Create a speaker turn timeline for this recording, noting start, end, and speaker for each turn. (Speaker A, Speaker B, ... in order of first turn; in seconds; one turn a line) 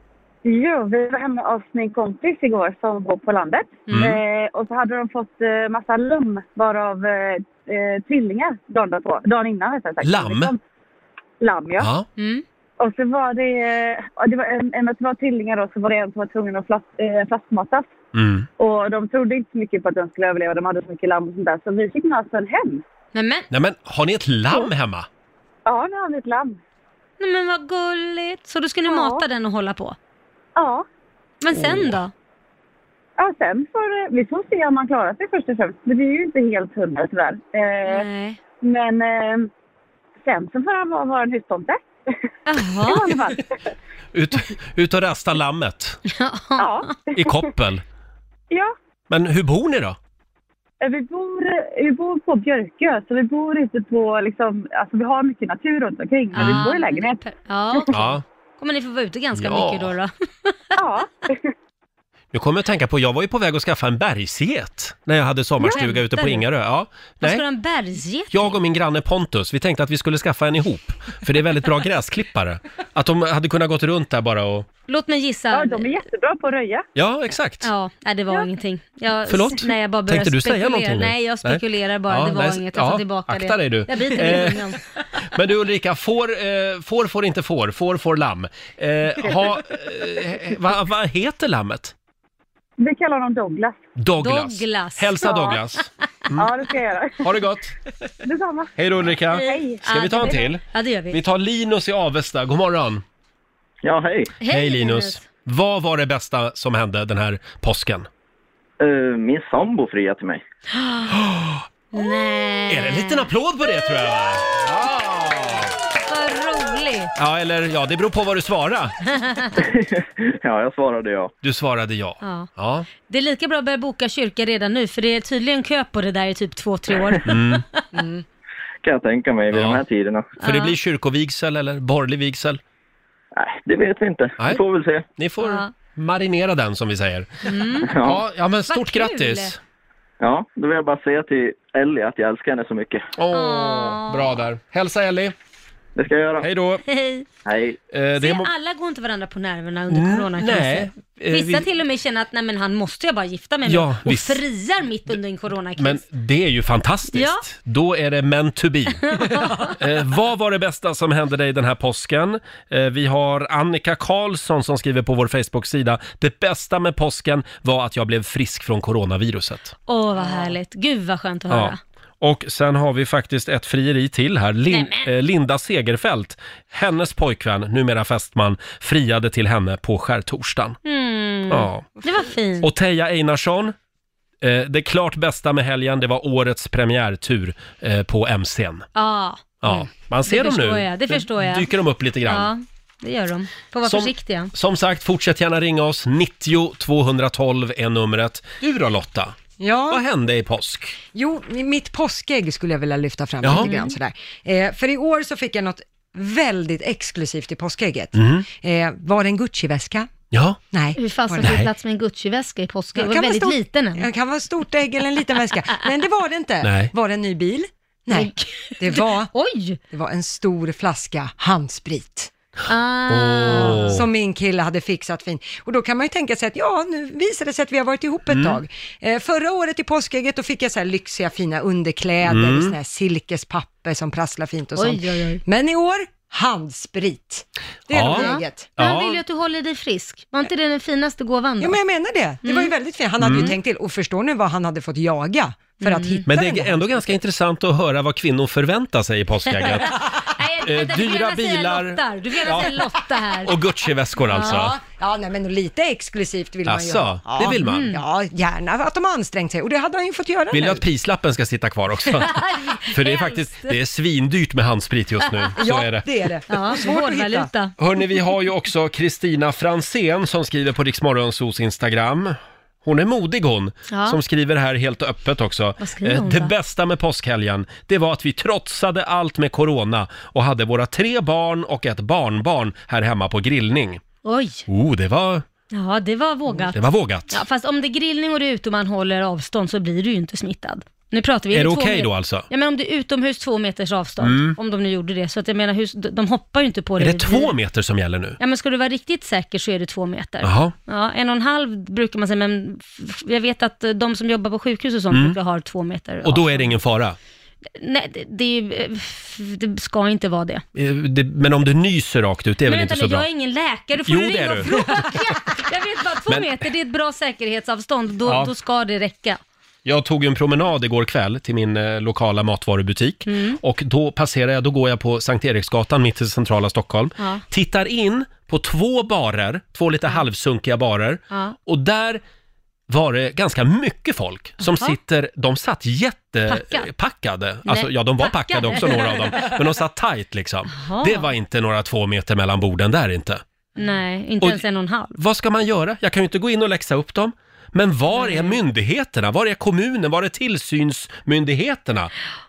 Speaker A: 0.5-10.6
Speaker B: 3.9-4.2
Speaker B: 10.0-10.5
Speaker A: 11.4-11.9
Speaker B: 11.8-12.1
Speaker C: 12.2-12.4
Speaker A: 12.8-17.9
Speaker B: 18.1-18.5
Speaker A: 18.6-22.8
Speaker C: 23.1-23.5
Speaker B: 23.5-25.1
Speaker A: 25.7-26.6
Speaker C: 27.2-30.0
Speaker A: 28.9-29.2
Speaker A: 30.6-30.9
Speaker C: 31.4-32.1
Speaker B: 31.6-31.9
Speaker A: 33.2-38.1
Speaker C: 37.9-38.4
Speaker A: 38.6-39.5
Speaker A: 40.2-41.8
Speaker C: 42.5-43.1
Speaker A: 42.8-43.6
Speaker B: 44.1-46.0
Speaker C: 46.1-46.9
Speaker A: 46.6-47.4
Speaker B: 47.1-47.8
Speaker B: 49.1-50.0
Speaker A: 50.8-57.9
Speaker C: 56.4-58.0
Speaker B: 56.4-56.6
Speaker B: 57.9-58.2
Speaker C: 58.6-60.6
Speaker B: 59.4-59.9
Speaker A: 60.8-61.5
Speaker B: 62.3-67.4
Speaker C: 65.6-66.5
Speaker C: 67.2-68.6
Speaker B: 68.3-74.7
Speaker C: 74.9-75.9
Speaker A: 75.5-76.8
Speaker B: 77.0-77.7
Speaker C: 77.6-84.8
Speaker B: 79.3-84.7
Speaker B: 85.2-91.9
Speaker A: 92.8-93.8
Speaker B: 94.0-96.5
Speaker C: 94.2-95.3
Speaker A: 95.2-95.6
Speaker A: 96.4-97.3
Speaker B: 97.2-97.7
Speaker A: 98.2-98.8
Speaker B: 98.8-103.0
Speaker C: 99.3-101.2
Speaker A: 99.3-100.4
Speaker D: 103.8-104.3
Speaker C: 104.4-105.2
Speaker B: 104.5-108.1
Speaker D: 108.8-110.4
Speaker C: 110.8-111.1
Speaker B: 111.1-111.7
Speaker C: 111.9-113.3
Speaker B: 112.7-115.7
Speaker C: 116.0-117.1
Speaker B: 117.2-119.0
Speaker D: 119.6-121.3
Speaker B: 121.4-122.9
Speaker C: 122.2-127.8
Speaker B: 127.2-127.6
Speaker D: 128.8-130.3
Speaker B: 129.5-129.8
Speaker C: 130.4-130.8
Speaker B: 130.4-132.6
Speaker D: 133.3-135.1
Speaker B: 135.2-137.5
Speaker C: 135.4-135.7
Speaker C: 137.4-137.9
Speaker D: 137.8-138.2
Speaker B: 138.0-139.6
Speaker C: 138.7-139.5
Speaker D: 140.2-143.1
Speaker B: 143.2-145.3
Speaker C: 143.3-144.4
Speaker D: 146.0-146.5
Speaker B: 146.4-146.8
Speaker C: 146.9-147.2
Speaker D: 147.4-147.8
Speaker B: 147.9-148.5
Speaker C: 148.2-156.0
Speaker B: 149.9-151.7
Speaker B: 153.7-154.4
Speaker B: 155.8-169.8
Speaker C: 157.1-157.4
Speaker C: 159.1-159.8
Speaker C: 169.9-171.8
Speaker B: 171.5-180.8
Speaker C: 174.7-175.1
Speaker C: 180.8-182.7
Speaker B: 181.5-181.9
Speaker B: 182.6-183.8
Speaker B: 184.4-188.9
Speaker C: 188.9-191.7
Speaker B: 189.6-192.5
Speaker C: 192.3-194.5
Speaker B: 193.8-199.4
Speaker E: 199.6-200.0
Speaker B: 199.9-201.0
Speaker E: 201.1-210.1
Speaker B: 203.4-203.7
Speaker C: 203.6-203.9
Speaker B: 208.2-208.4
Speaker B: 210.3-210.6
Speaker E: 210.7-211.6
Speaker C: 211.0-214.1
Speaker E: 212.9-219.3
Speaker B: 216.6-216.9
Speaker C: 218.1-219.8
Speaker E: 219.9-222.3
Speaker C: 222.7-224.0
Speaker B: 223.1-224.0
Speaker E: 223.5-238.7
Speaker B: 228.3-228.6
Speaker B: 232.3-232.8
Speaker C: 234.8-235.4
Speaker B: 237.9-239.2
Speaker C: 238.1-241.8
Speaker E: 241.6-247.0
Speaker C: 242.4-242.7
Speaker B: 243.2-243.5
Speaker C: 245.8-246.2
Speaker B: 246.3-250.0
Speaker C: 249.6-253.5
Speaker B: 250.6-252.8
Speaker B: 253.4-254.8
Speaker C: 254.3-254.7
Speaker E: 254.3-260.9
Speaker B: 256.7-257.9
Speaker C: 257.6-258.0
Speaker B: 260.5-266.1
Speaker C: 262.2-263.8
Speaker E: 265.6-267.5
Speaker C: 266.5-267.8
Speaker B: 267.8-284.0
Speaker C: 273.9-274.2
Speaker C: 275.8-276.5
Speaker C: 284.2-284.7
Speaker B: 284.7-285.4
Speaker C: 285.7-297.6
Speaker B: 286.7-287.4
Speaker B: 291.5-292.5
Speaker B: 294.2-294.6
Speaker B: 297.0-298.4
Speaker C: 298.4-306.7
Speaker B: 300.4-300.7
Speaker B: 305.1-305.4
Speaker B: 306.2-307.2
Speaker C: 307.8-310.6
Speaker B: 310.8-313.3
Speaker C: 312.7-319.4
Speaker B: 314.1-315.1
Speaker B: 316.3-316.5
Speaker B: 318.3-318.5
Speaker B: 319.9-332.2
Speaker C: 323.3-323.6
Speaker C: 327.2-327.4
Speaker C: 331.3-331.6
Speaker B: 332.9-343.4
Speaker C: 334.6-334.9
Speaker C: 336.5-336.9
Speaker C: 337.7-339.6
Speaker C: 340.7-341.3
Speaker C: 343.8-345.2
Speaker B: 345.2-352.1
Speaker C: 348.1-348.6